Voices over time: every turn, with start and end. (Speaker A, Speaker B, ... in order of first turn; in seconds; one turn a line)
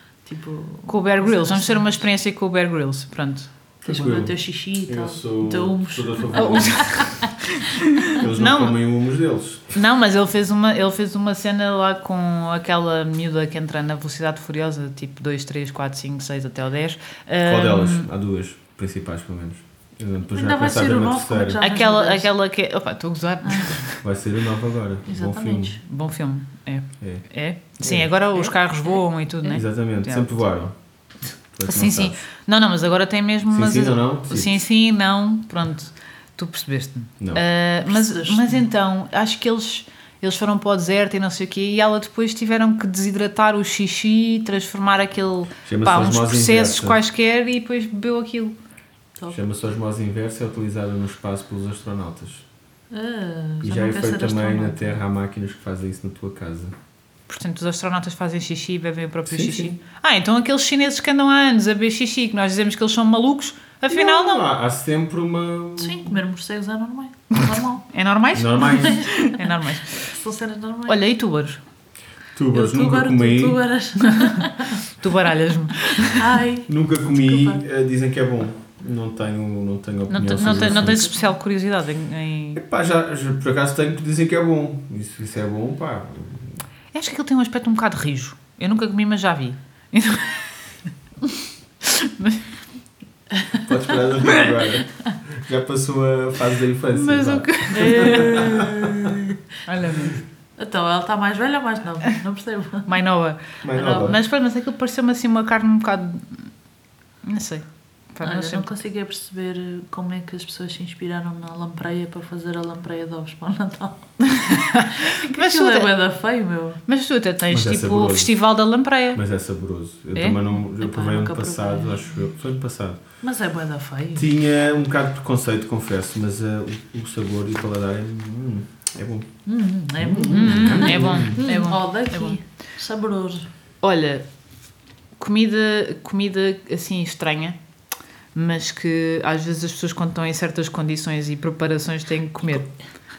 Speaker A: 0.2-2.0
Speaker B: 0.9-3.5
Speaker C: 3.8-7.2
Speaker A: 3.9-7.3
Speaker B: 6.3-8.8
Speaker C: 8.1-9.8
Speaker B: 9.7-18.1
Speaker C: 17.4-21.6
Speaker A: 20.3-22.3
Speaker B: 21.6-24.0
Speaker A: 23.4-23.8
Speaker C: 24.0-25.8
Speaker A: 25.1-25.8
Speaker B: 25.9-30.4
Speaker C: 27.8-28.1
Speaker C: 29.5-30.7
Speaker C: 31.5-32.2
Speaker B: 31.6-48.6
Speaker C: 33.5-34.6
Speaker A: 37.9-38.6
Speaker C: 45.7-47.0
Speaker C: 49.3-52.5
Speaker A: 52.9-55.0
Speaker C: 53.6-56.7
Speaker B: 57.3-64.5
Speaker C: 59.3-59.8
Speaker C: 63.9-66.2
Speaker A: 65.8-67.8
Speaker B: 67.9-70.2
Speaker C: 68.3-69.0
Speaker A: 68.8-69.4
Speaker A: 70.1-71.0
Speaker B: 70.9-71.6
Speaker C: 72.3-73.6
Speaker A: 72.5-74.8
Speaker B: 74.2-76.3
Speaker A: 76.1-77.6
Speaker C: 76.7-81.1
Speaker B: 80.1-82.6
Speaker A: 80.4-81.3
Speaker C: 82.5-86.6
Speaker B: 86.9-90.5
Speaker B: 91.8-92.4
Speaker C: 93.6-99.3
Speaker B: 96.9-98.7
Speaker A: 97.7-99.2
Speaker B: 99.7-100.2
Speaker A: 100.6-102.9
Speaker B: 102.9-106.5
Speaker C: 103.6-104.2
Speaker B: 107.2-108.7
Speaker A: 108.2-114.1
Speaker B: 114.3-115.9
Speaker A: 115.0-116.8
Speaker B: 116.9-119.2
Speaker C: 117.5-118.3
Speaker C: 119.1-123.0
Speaker A: 120.8-122.2
Speaker A: 123.2-124.3
Speaker C: 124.2-129.3
Speaker A: 129.5-133.5
Speaker C: 130.0-131.4
Speaker B: 130.3-132.4
Speaker B: 133.8-134.2
Speaker B: 135.2-137.6
Speaker B: 138.3-142.7